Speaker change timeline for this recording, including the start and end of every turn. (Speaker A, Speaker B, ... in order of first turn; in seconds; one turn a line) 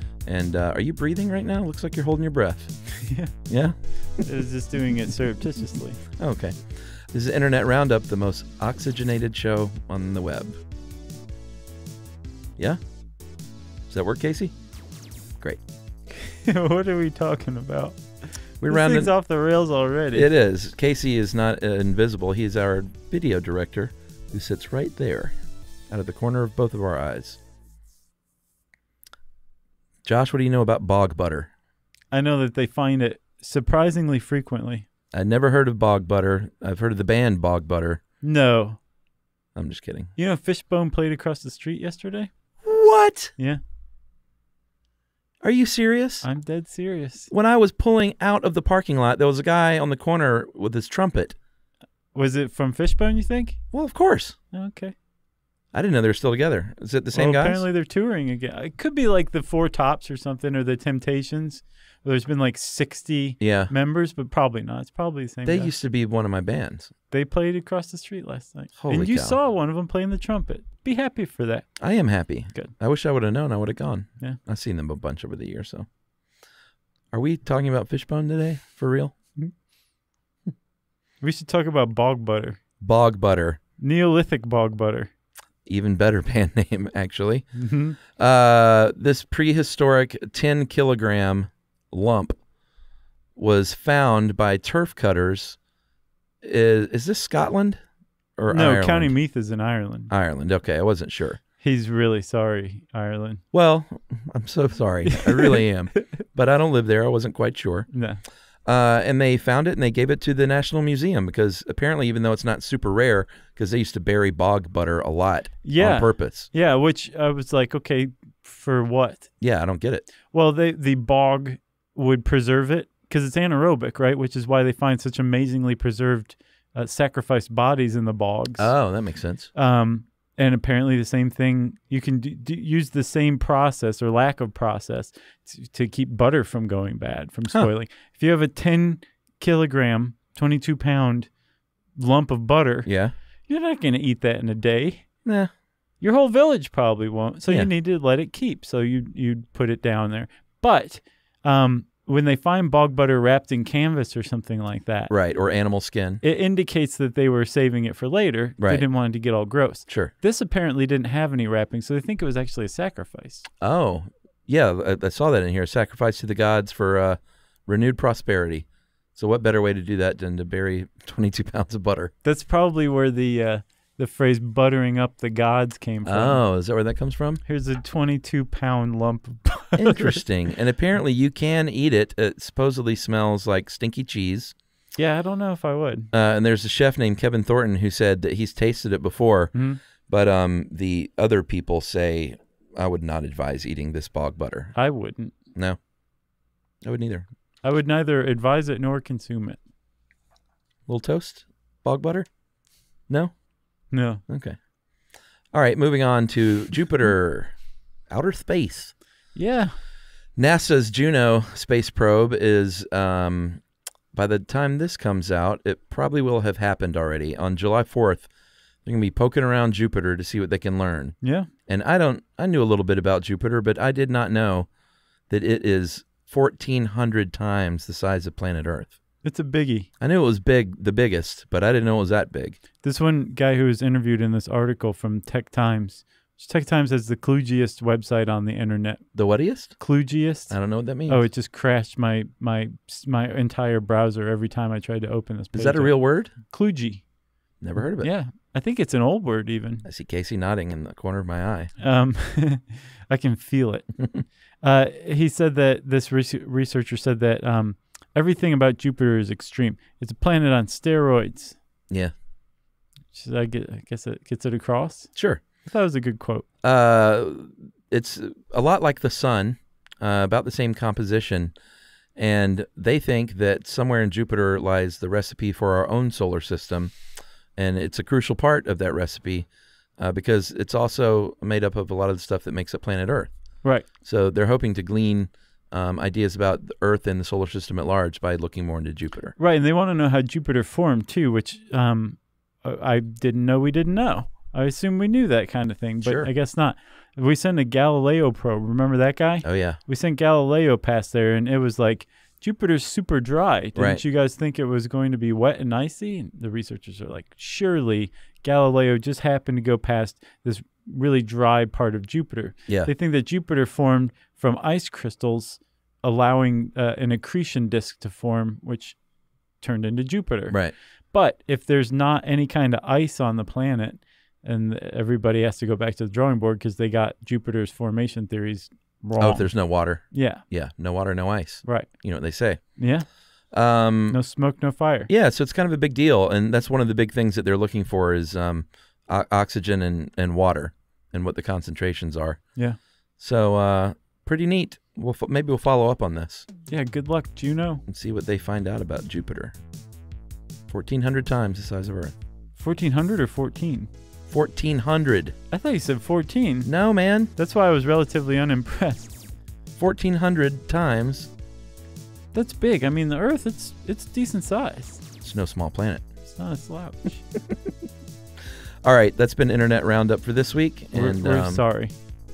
Speaker A: 0.2-4.2
Speaker B: 3.1-3.3
Speaker B: 4.1-6.0
Speaker A: 6.2-10.6
Speaker A: 13.9-14.6
Speaker B: 16.1-20.3
Speaker A: 18.6-19.1
Speaker A: 20.1-25.3
Speaker A: 25.9-27.4
Speaker A: 30.1-31.5
Speaker B: 32.1-34.9
Speaker A: 35.1-38.0
Speaker B: 38.2-38.8
Speaker A: 39.5-40.1
Speaker B: 40.2-42.3
Speaker A: 42.6-43.3
Speaker A: 45.4-46.3
Speaker B: 46.2-47.3
Speaker A: 47.3-51.4
Speaker B: 52.1-53.6
Speaker A: 53.7-54.4
Speaker B: 54.5-54.9
Speaker A: 55.7-57.6
Speaker B: 57.1-65.8
Speaker A: 63.4-63.7
Speaker A: 65.5-66.9
Speaker B: 67.1-71.9
Speaker A: 68.8-69.4
Speaker A: 71.8-75.9
Speaker A: 77.1-79.1
Speaker B: 81.2-82.6
Speaker A: 82.8-83.6
Speaker B: 83.8-85.1
Speaker A: 85.7-92.4
Speaker B: 87.5-88.0
Speaker A: 93.4-95.6
Speaker A: 96.4-97.8
Speaker A: 98.4-99.2
Speaker B: 98.5-100.1
Speaker A: 100.1-101.4
Speaker B: 101.6-103.4
Speaker A: 103.5-107.9
Speaker B: 105.1-105.6
Speaker B: 107.9-108.2
Speaker A: 108.7-116.5
Speaker B: 115.6-119.3
Speaker A: 119.4-120.1
Speaker B: 120.3-129.0
Speaker A: 128.6-129.5
Speaker B: 129.5-141.3
Speaker B: 141.9-145.1
Speaker A: 142.8-143.1
Speaker A: 145.2-145.5
Speaker B: 146.0-155.1
Speaker A: 155.1-156.2
Speaker B: 156.2-163.5
Speaker A: 158.6-158.9
Speaker A: 159.9-160.1
Speaker A: 163.6-172.1
Speaker B: 172.2-176.4
Speaker A: 176.1-177.4
Speaker B: 177.4-180.2
Speaker A: 179.8-184.6
Speaker B: 184.9-186.1
Speaker A: 186.1-194.8
Speaker B: 189.5-189.8
Speaker B: 194.8-195.3
Speaker A: 196.8-197.3
Speaker B: 197.6-199.6
Speaker A: 200.9-202.3
Speaker A: 203.1-203.4
Speaker B: 203.9-204.2
Speaker A: 204.3-204.6
Speaker A: 205.5-209.0
Speaker B: 209.3-209.8
Speaker A: 210.4-218.3
Speaker A: 218.8-221.2
Speaker B: 221.2-221.5
Speaker A: 221.7-224.7
Speaker A: 225.3-229.0
Speaker B: 229.2-229.9
Speaker A: 230.0-232.6
Speaker B: 232.8-239.2
Speaker A: 239.1-241.3
Speaker B: 239.7-247.1
Speaker A: 245.5-246.4
Speaker A: 247.6-248.1
Speaker B: 248.0-249.8
Speaker A: 249.8-251.8
Speaker B: 251.8-261.6
Speaker B: 263.1-266.5
Speaker A: 265.1-265.4
Speaker A: 266.6-271.6
Speaker A: 272.2-277.0
Speaker A: 277.5-289.4
Speaker B: 283.6-283.9
Speaker B: 289.4-319.0
Speaker A: 296.0-296.3
Speaker A: 299.4-299.8
Speaker A: 303.8-304.0
Speaker B: 319.6-330.4
Speaker A: 320.5-320.8
Speaker A: 329.2-332.9
Speaker B: 331.6-332.1
Speaker B: 332.8-333.1
Speaker A: 333.5-334.2
Speaker B: 334.1-335.1
Speaker A: 335.1-346.5
Speaker B: 346.7-347.8
Speaker A: 347.9-349.6
Speaker A: 350.7-352.1
Speaker B: 352.6-353.9
Speaker A: 354.3-355.4
Speaker B: 355.5-356.7
Speaker A: 356.6-357.3
Speaker B: 357.3-359.2
Speaker A: 359.8-361.3
Speaker B: 362.3-365.0
Speaker A: 365.2-366.0
Speaker B: 366.3-367.3
Speaker A: 368.8-371.6
Speaker B: 370.9-371.9